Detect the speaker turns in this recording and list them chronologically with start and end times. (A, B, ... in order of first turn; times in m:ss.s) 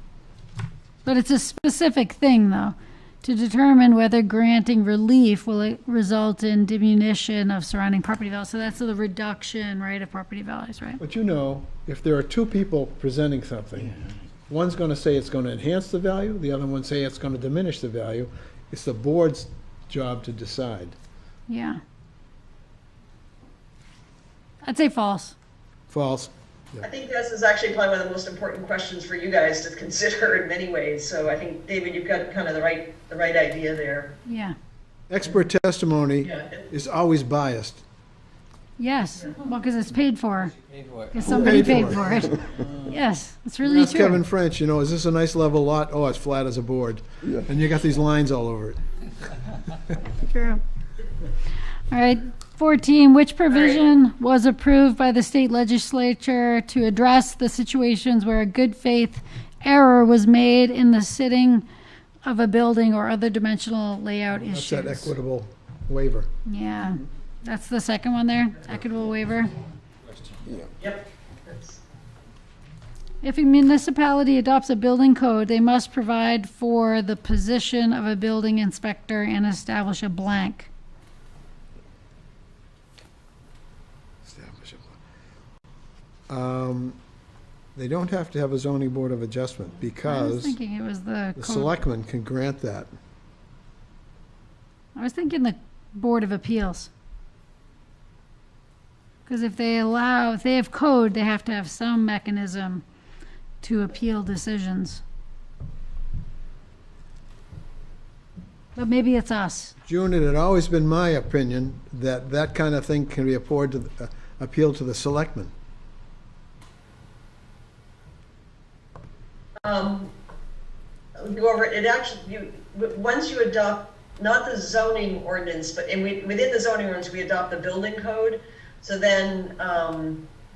0:01.0-0:11.0 A
0:11.0-0:13.9 B
0:14.5-0:21.0 B
0:21.5-0:21.8 A
0:24.6-0:25.3 A
0:25.9-0:26.8 B
0:26.8-0:34.2 C
0:34.2-0:34.6 A
0:35.1-0:37.8 B
0:38.8-0:40.5 A
0:40.4-0:41.3 D
0:41.1-0:44.2 A
0:41.2-0:42.3 B
0:42.5-0:43.0 D
0:43.6-0:48.8 B
0:50.1-0:50.6 A
0:51.9-1:01.6 A
0:53.5-0:53.8 C
1:02.2-1:05.1 A
1:04.4-1:06.3 B
1:06.4-1:09.5 A
1:10.0-1:10.5 D
1:10.8-1:11.8 C
1:13.2-1:20.7 A
1:24.2-1:24.9 B
1:26.3-1:27.0 B
1:27.7-1:30.6 B
1:30.0-1:31.7 A
1:31.4-1:32.9 B
1:35.0-1:36.9 A
1:39.2-1:42.8 A
1:43.6-1:45.0 A
1:48.7-1:49.7 A
1:49.8-1:55.5 B
1:59.6-2:00.1 C
2:01.2-2:10.2 C